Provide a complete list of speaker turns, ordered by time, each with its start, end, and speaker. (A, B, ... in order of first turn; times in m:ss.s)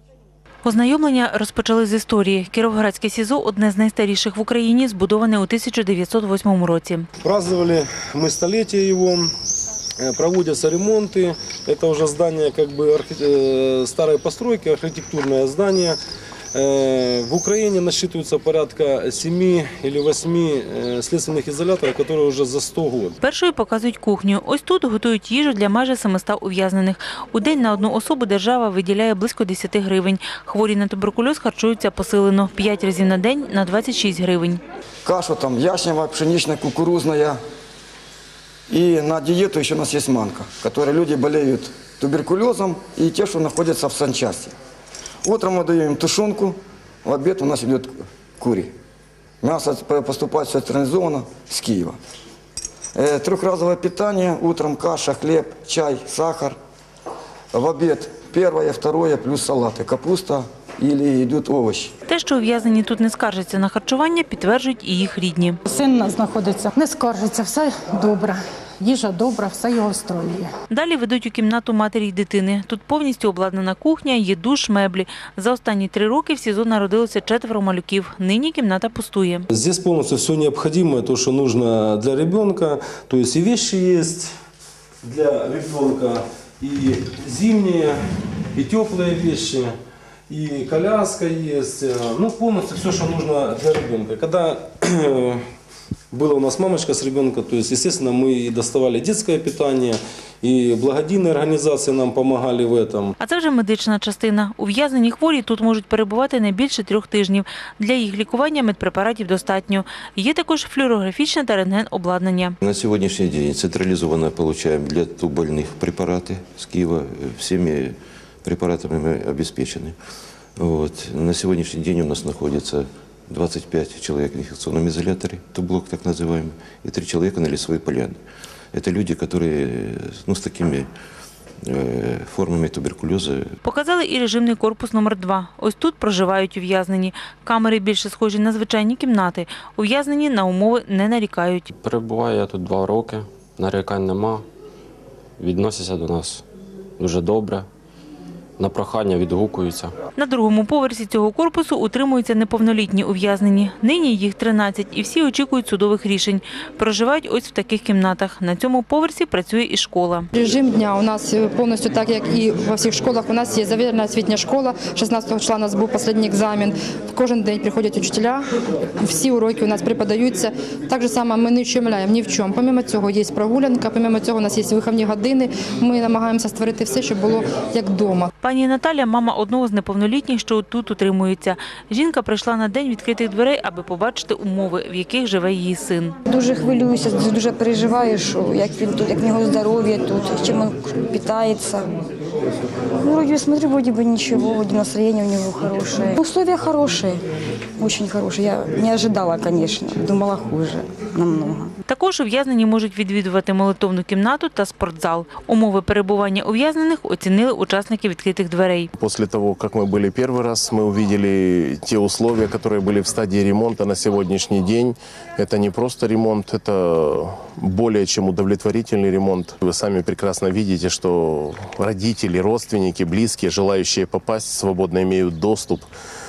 0:00.6-0:07.1 A
0:07.2-0:09.3 B
0:10.0-0:16.0 B
0:16.5-0:23.2 B
0:23.2-0:34.6 A
0:35.0-0:37.4 C
0:38.7-0:44.5 C
0:45.2-0:48.7 C
0:49.4-0:52.0 C
0:52.9-0:56.6 C
0:57.5-1:01.9 C
1:02.1-1:05.6 A
1:05.7-1:10.5 D
1:10.7-1:19.5 A
1:19.5-1:24.3 B
1:25.0-1:28.0 B
1:28.5-1:29.7 B
1:30.3-1:35.4 B
1:36.1-1:43.1 B
1:43.2-1:52.6 A
1:52.6-1:59.9 E
2:00.6-2:08.2 E
2:08.7-2:10.9 E
2:11.6-2:13.5 E
2:13.6-2:21.7 A
2:21.7-2:24.5 F
2:25.4-2:26.4 F
2:27.0-2:27.7 F
2:28.6-2:29.9 F
2:30.2-2:40.3 A
2:40.3-2:48.4 G
2:49.0-2:58.3 G
2:58.4-3:06.2 A
3:06.3-3:11.8 H
3:13.0-3:17.2 H
3:17.8-3:21.7 H
3:21.9-3:28.9 A
3:29.0-3:45.9 I